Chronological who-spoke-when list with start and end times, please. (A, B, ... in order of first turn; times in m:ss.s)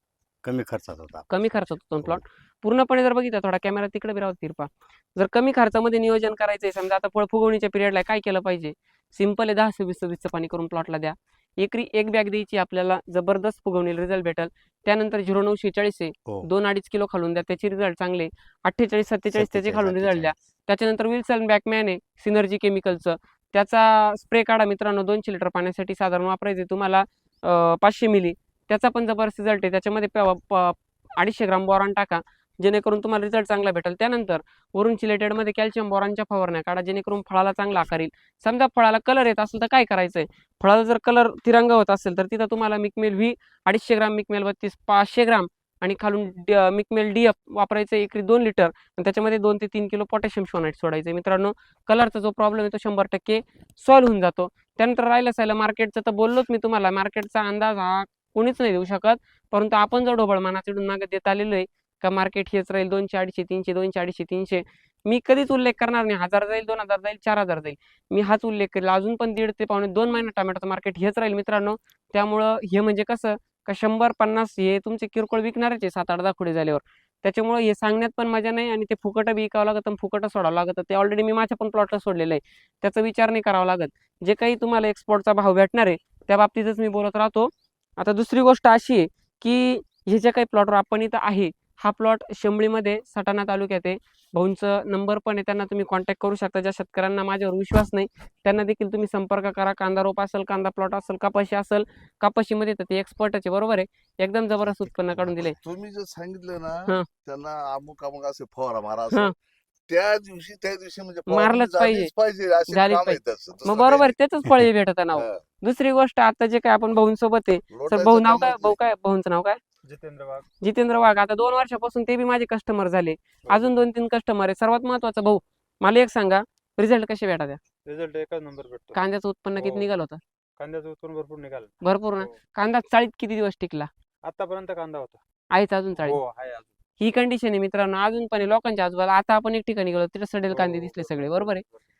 0:00.4-0:02.2 A
0:01.3-1:45.6 B
0:19.3-0:20.3 A
1:45.5-1:49.3 C
1:49.9-1:54.1 C
1:51.3-1:52.1 B
1:52.7-1:59.6 B
1:55.1-1:55.4 C
1:57.7-1:58.8 C
1:59.8-2:00.4 D
2:00.6-2:07.6 B
2:03.4-2:03.7 D
2:07.8-2:09.0 D
2:08.9-2:10.2 B
2:09.6-2:09.9 D
2:10.6-2:12.4 D
2:11.8-2:13.9 B
2:14.2-2:15.2 D
2:15.5-2:16.2 B
2:16.0-2:16.7 D
2:17.0-2:21.6 B
2:20.5-2:21.5 D